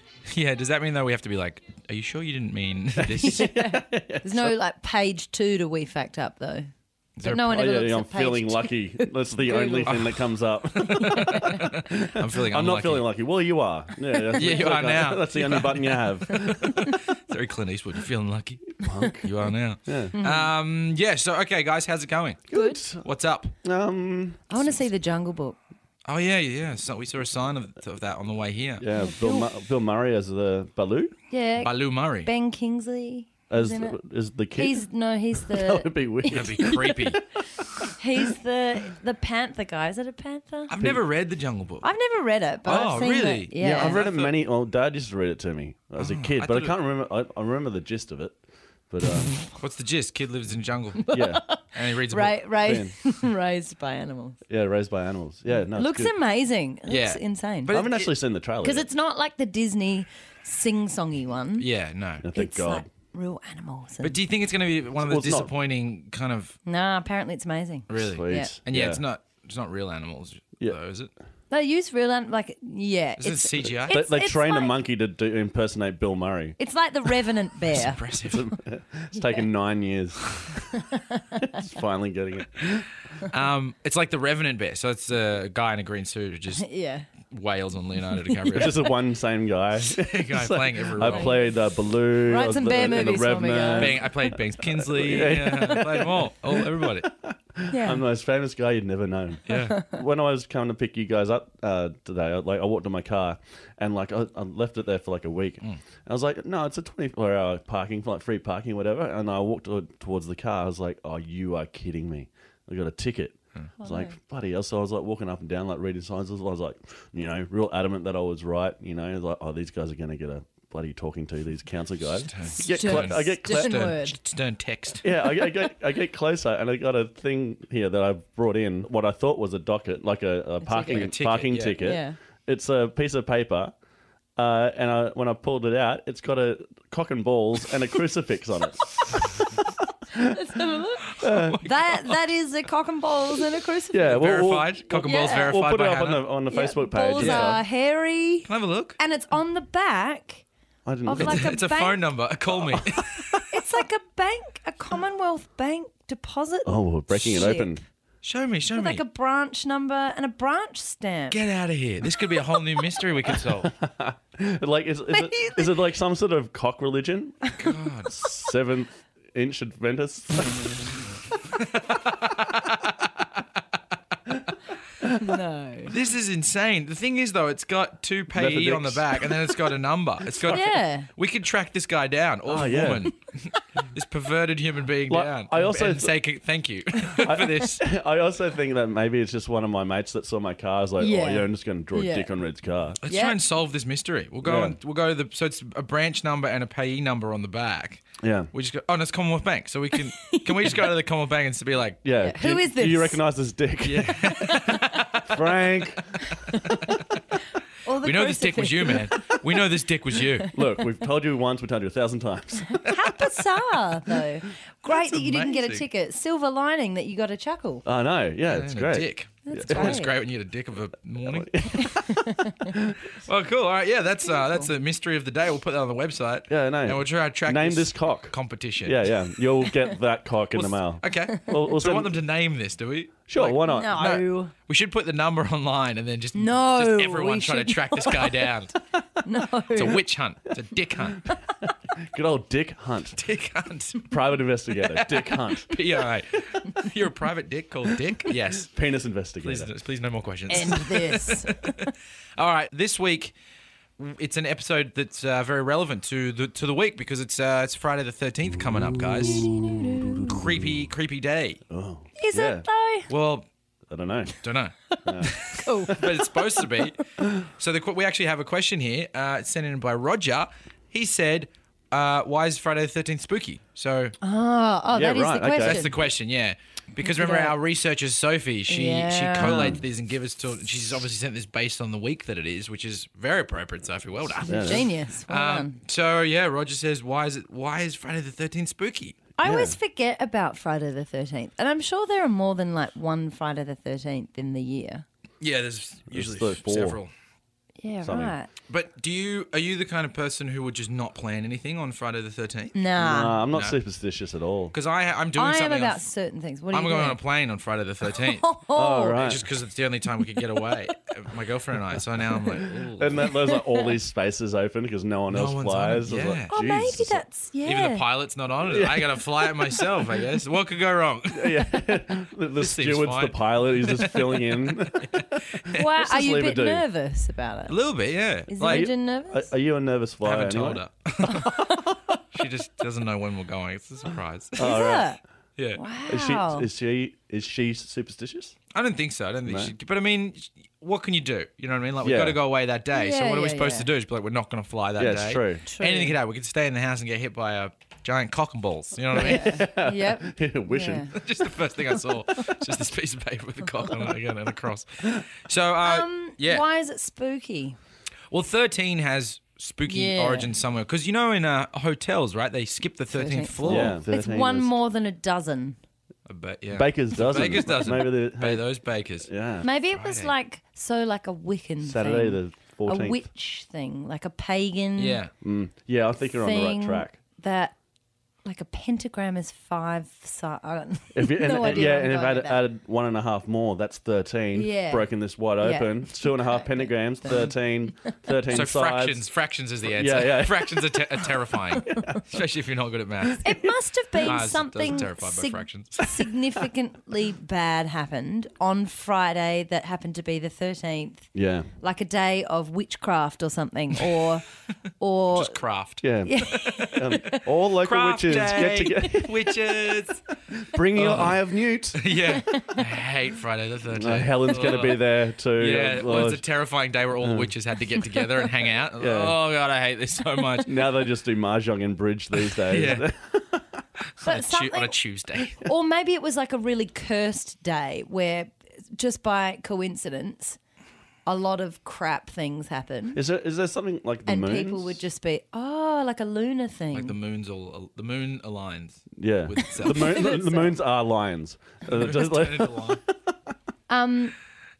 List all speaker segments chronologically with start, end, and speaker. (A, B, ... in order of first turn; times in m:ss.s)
0:00.3-0:03.5 A
0:03.0-0:04.6 B
0:03.2-0:06.7 C
0:07.2-0:07.4 A
0:07.2-0:10.1 C
0:07.4-0:16.9 B
0:09.8-0:13.1 A
0:10.8-0:11.6 C
0:14.2-0:14.7 C
0:14.3-0:22.5 A
0:18.8-0:19.3 B
0:19.9-0:20.1 B
0:20.1-0:20.5 C
0:22.5-0:23.0 B
0:22.5-0:22.8 C
0:23.0-0:23.5 A
0:23.6-0:24.6 B
0:24.5-0:25.6 C
0:26.0-0:28.8 A
0:28.8-0:31.1 B
0:28.9-0:29.4 C
0:31.3-0:34.0 C
0:31.6-0:32.3 A
0:33.5-0:37.9 B
0:34.5-0:36.9 C
0:36.3-0:37.2 A
0:38.0-0:40.7 C
0:40.7-0:41.8 A
0:41.8-0:44.0 C
0:42.6-0:44.4 A
0:43.6-0:48.4 B
0:46.0-0:46.8 A
0:48.9-0:49.3 B
0:49.5-0:51.2 A
0:51.0-0:54.4 C
0:51.1-0:51.5 B
0:51.7-0:52.5 A
0:52.6-0:52.9 B
0:54.5-0:56.1 B
0:55.7-0:57.7 C
0:56.9-0:58.1 A
0:57.7-0:58.9 B
0:58.6-1:01.6 C
1:01.6-1:02.2 A
1:02.2-1:02.8 B
1:02.3-1:04.2 C
1:04.0-1:06.6 A
1:05.0-1:05.5 B
1:06.6-1:08.5 C
1:07.9-1:11.1 A
1:07.9-1:09.0 B
1:11.5-1:14.8 C
1:13.2-1:14.0 A
1:13.9-1:16.6 B
1:16.6-1:18.0 C
1:17.7-1:18.5 A
1:18.2-1:20.6 B
1:19.2-1:19.4 C
1:20.7-1:21.5 C
1:21.5-1:22.9 B
1:23.2-1:26.7 A
1:26.6-1:27.1 C
1:27.3-1:28.8 A
1:28.1-1:28.8 C
1:28.5-2:03.8 B
1:29.8-1:31.4 A
1:31.0-1:31.5 C
1:32.2-1:34.0 C
1:33.8-1:37.1 A
1:37.7-1:38.0 C
1:39.5-1:39.8 A
1:39.5-1:39.9 C
1:53.8-1:54.1 C
2:02.2-2:05.0 A
2:02.6-2:04.2 C
2:05.0-2:13.7 B
2:10.6-2:11.1 C
2:10.9-2:11.8 A
2:11.8-2:12.2 C
2:14.4-2:19.7 B
2:20.1-2:24.3 C
2:21.2-2:22.2 A
2:21.2-2:21.6 B
2:23.9-2:27.6 B
2:24.1-2:26.2 A
2:24.9-2:25.6 C
2:26.5-2:30.4 C
2:27.2-2:27.6 A
2:28.5-2:29.0 A
2:30.8-2:31.6 B
2:31.0-2:32.1 C
2:31.2-2:33.6 A
2:33.5-2:37.8 C
2:36.6-2:37.8 B
2:37.1-2:37.5 A
2:38.2-2:39.0 A
2:38.7-2:41.4 C
2:41.3-2:43.7 A
2:43.3-2:47.5 B
2:45.1-2:45.9 C
2:47.4-2:47.7 C
2:47.6-2:48.1 A
2:48.1-2:51.0 B
2:51.6-2:53.0 A
2:55.2-2:55.9 C
2:55.8-3:07.8 A
2:58.3-2:59.7 B
3:00.2-3:00.6 B
3:00.5-3:01.1 C
3:02.4-3:03.1 B
3:05.1-3:06.1 B
3:07.2-3:13.0 B
3:11.0-3:12.3 C
3:13.0-3:22.0 A
3:13.0-3:13.4 C
3:14.4-3:14.8 B
3:18.2-3:18.5 B
3:19.9-3:20.9 C
3:22.0-3:26.1 B
3:22.2-3:23.2 C
3:23.8-3:26.0 A
3:24.5-3:24.9 C
3:26.4-3:27.1 C
3:26.5-3:26.8 A
3:27.8-3:29.7 C
3:28.0-3:30.5 A
3:30.2-3:30.5 C
3:30.5-3:33.0 B
3:32.8-3:37.8 C
3:34.8-3:35.8 A
3:37.8-3:40.0 B
3:38.5-3:41.7 A
3:39.4-3:40.1 C
3:41.2-3:43.0 B
3:41.7-3:42.7 C
3:43.2-3:49.0 A
3:44.2-3:44.7 C
3:46.5-3:52.1 B
3:50.5-3:58.8 A
3:53.3-3:54.0 B
3:53.7-3:54.5 C
3:56.3-3:58.5 C
3:59.2-4:00.0 C
3:59.7-4:01.3 A
4:02.0-4:03.2 B
4:03.1-4:04.1 A
4:04.1-4:05.8 B
4:04.8-4:08.7 A
4:08.5-4:09.7 B
4:09.4-4:11.8 A
4:10.5-4:11.9 C
4:12.4-4:13.3 A
4:14.0-4:19.5 A
4:18.6-4:20.8 B
4:19.2-4:20.3 C
4:20.2-4:21.6 A
4:21.7-4:22.6 B
4:22.2-4:23.1 C
4:23.1-4:23.4 A
4:23.9-4:24.4 B
4:24.4-4:34.2 A
4:24.9-4:26.9 C
4:25.0-4:25.4 B
4:34.2-4:35.9 C
4:34.9-4:35.9 B
4:35.5-4:49.2 A
4:37.0-4:37.5 C
4:38.7-4:39.8 C
4:39.4-4:39.8 B
4:44.4-4:45.8 C
4:44.5-4:44.8 B
4:49.4-4:55.0 C
4:49.4-4:49.8 B
4:55.4-4:57.1 A
4:56.1-4:57.0 B
4:57.8-4:58.5 C
4:58.0-4:58.3 B
4:58.7-5:02.9 A
5:02.7-5:03.4 C
5:03.0-5:04.7 B
5:03.5-5:03.8 A
5:04.7-5:06.0 A
5:05.3-5:07.2 C
5:06.7-5:08.5 A
5:08.1-5:09.2 C
5:08.7-5:09.4 B
5:09.1-5:13.4 A
5:13.0-5:17.2 B
5:13.5-5:13.9 C
5:15.3-5:16.5 A
5:16.5-5:18.0 C
5:17.6-5:21.8 A
5:18.6-5:20.0 B
5:21.3-5:26.8 B
5:22.6-5:25.8 A
5:25.7-5:27.8 C
5:27.7-5:28.9 A
5:28.5-5:29.5 C
5:28.6-5:30.8 B
5:30.2-5:31.6 A
5:31.3-5:31.8 C
5:32.3-5:34.7 A
5:34.6-5:35.1 B
5:34.6-5:35.2 C
5:35.6-5:35.8 A
5:35.8-5:36.7 C
5:36.0-5:38.6 B
5:38.7-5:49.6 A
5:39.5-5:39.7 B
5:42.0-5:42.4 B
5:42.9-5:43.9 C
5:45.0-5:45.6 B
5:45.7-5:46.2 C
5:49.1-5:51.1 B
5:49.2-5:51.1 C
5:51.1-5:56.6 A
5:55.8-5:57.8 C
5:58.3-6:04.0 A
5:59.8-6:00.5 C
6:03.1-6:05.8 C
6:03.6-6:04.7 B
6:06.2-6:09.3 A
6:06.7-6:08.7 B
6:09.2-6:09.7 B
6:09.6-6:15.2 C
6:09.9-6:10.3 A
6:11.8-6:13.2 B
6:15.0-6:15.3 A
6:15.4-6:17.2 B
6:16.4-6:17.7 C
6:18.4-6:22.6 C
6:21.1-6:29.2 B
6:24.5-6:28.3 C
6:28.5-6:33.5 A
6:29.8-6:31.0 B
6:31.7-6:32.1 C
6:31.9-6:32.2 B
6:33.4-6:44.4 C
6:34.2-6:36.1 A
6:41.3-6:41.7 B
6:45.0-6:45.6 C
6:45.3-6:50.3 A
6:46.0-6:49.6 B
6:46.2-6:47.4 C
6:50.6-6:52.0 B
6:50.9-6:51.4 A
6:51.9-7:00.7 A
6:52.3-6:52.8 C
6:53.9-6:56.4 B
6:57.2-6:57.5 B
6:59.0-6:59.4 B
7:00.6-7:03.7 B
7:02.3-7:03.1 A
7:04.2-7:05.6 A
7:04.2-7:10.6 C
7:11.2-7:13.2 C
7:13.1-7:15.0 B
7:14.2-7:17.2 C
7:16.9-7:20.4 A
7:19.2-7:23.3 B
7:19.6-7:20.7 C
7:22.0-7:23.0 A
7:23.9-7:24.3 C